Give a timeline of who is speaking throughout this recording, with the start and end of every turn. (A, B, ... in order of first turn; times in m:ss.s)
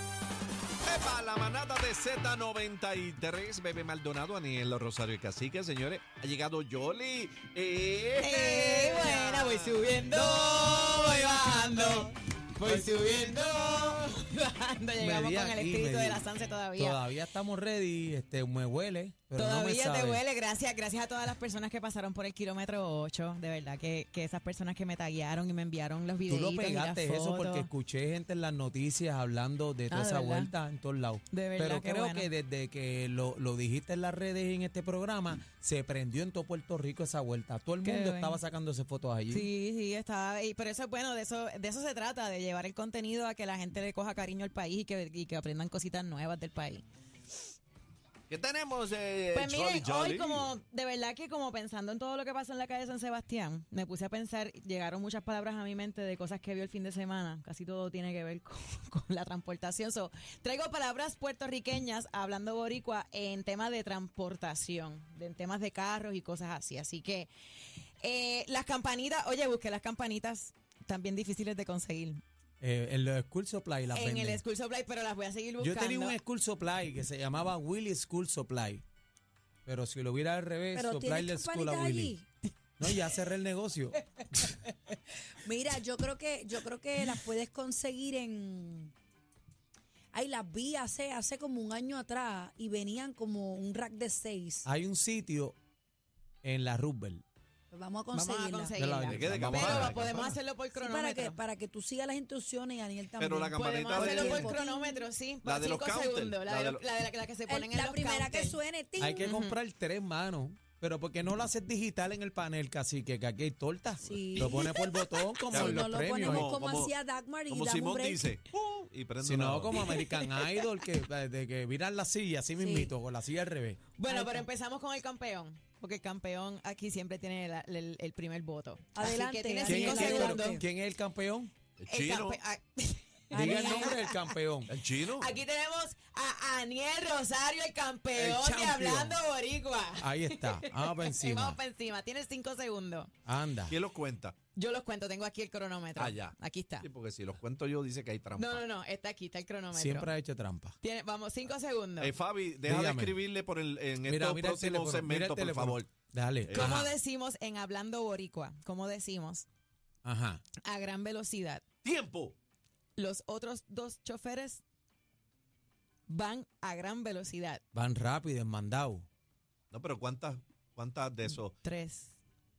0:00.8-0:10.4 A
0:08.2-0:17.1 B
0:15.0-0:16.2 C
0:16.8-0:20.2 C
0:19.4-0:27.7 B
0:26.3-0:39.5 C
0:29.9-0:30.5 B
0:31.3-0:32.3 B
0:37.8-0:38.4 B
0:39.3-0:46.8 B
0:48.3-0:50.5 A
0:49.3-1:07.3 B
1:08.0-1:12.2 B
1:12.6-1:14.4 C
1:13.9-1:16.2 B
1:15.6-1:18.8 C
1:19.7-1:22.2 C
1:20.7-1:22.3 D
1:22.8-1:24.0 C
1:25.4-1:28.9 D
1:30.1-1:34.7 D
1:34.7-1:35.6 C
1:36.4-1:37.2 C
1:37.7-1:38.8 D
1:38.1-1:41.4 B
1:38.8-1:40.4 C
1:39.1-1:40.4 A
1:40.8-1:45.1 D
1:43.2-1:44.6 A
1:43.5-1:48.6 B
1:45.4-1:46.9 A
1:47.5-1:49.3 D
1:49.0-1:56.5 C
1:49.2-1:49.6 B
1:54.0-1:54.7 D
1:55.4-1:58.4 D
1:55.5-1:56.9 A
1:57.5-1:59.9 A
1:59.2-2:03.8 C
1:59.8-2:00.7 B
2:02.6-2:02.9 D
2:04.0-2:10.6 B
2:04.1-2:04.5 D
2:08.9-2:10.6 D
2:09.6-2:11.5 C
2:11.8-2:12.4 A
2:11.9-2:14.3 B
2:13.3-2:13.9 D
2:13.3-2:14.7 C
2:14.7-2:15.3 A
2:14.9-2:23.1 B
2:18.1-2:19.2 C
2:20.0-2:21.6 C
2:23.3-2:23.8 C
2:23.7-2:24.4 A
2:24.6-2:26.9 B
2:26.0-2:28.6 A
2:28.4-2:30.1 B
2:29.7-2:30.8 C
2:30.8-2:32.2 B
2:32.0-2:35.9 A
2:32.6-2:33.2 C
2:34.1-2:36.8 C
2:36.4-2:36.9 A
2:36.5-2:39.5 B
2:40.0-2:40.4 C
2:40.6-2:41.6 B
2:41.8-2:42.4 A
2:43.0-2:44.6 B
2:46.1-2:47.6 B
2:47.7-2:49.1 C
2:49.7-2:51.5 A
2:51.6-2:52.1 B